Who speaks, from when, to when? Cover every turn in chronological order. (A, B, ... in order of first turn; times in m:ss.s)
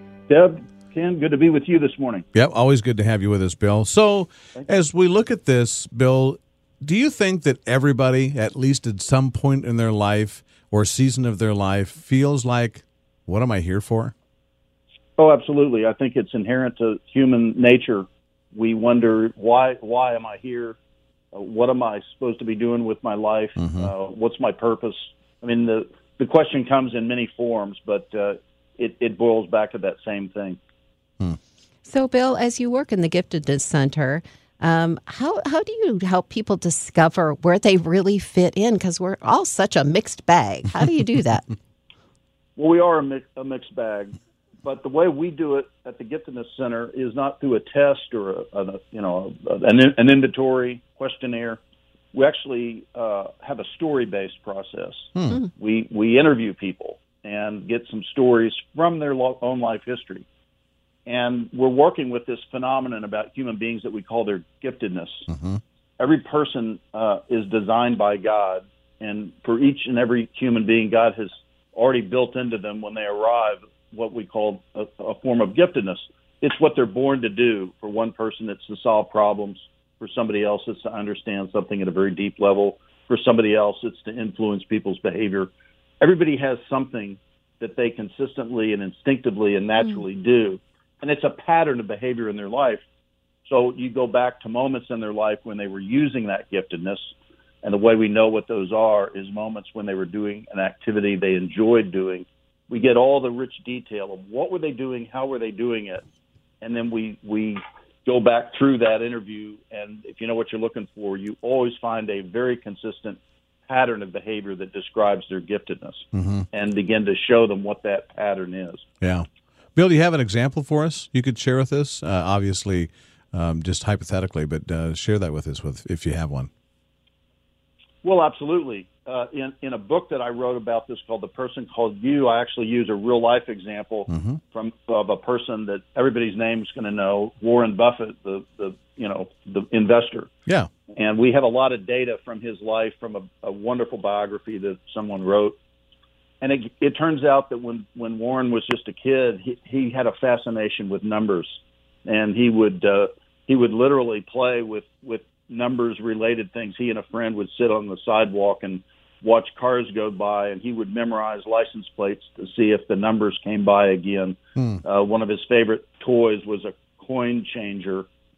0:00.3-0:02.3 A
0:02.3-0:14.1 B
0:15.2-0:20.8 A
0:21.3-0:30.6 A
0:23.6-0:23.9 B
0:31.8-0:41.5 C
0:42.6-0:51.6 A
0:52.1-1:00.3 A
1:01.1-1:05.3 A
1:05.3-1:05.6 B
1:06.0-1:32.8 A
1:33.5-1:37.1 A
1:37.6-1:46.0 A
1:46.6-1:58.8 A
1:56.1-1:56.5 B
1:59.0-2:06.5 B
2:08.0-2:20.3 A
2:14.1-2:14.4 B
2:20.9-2:25.6 A
2:26.4-2:48.1 A
2:44.6-2:44.8 B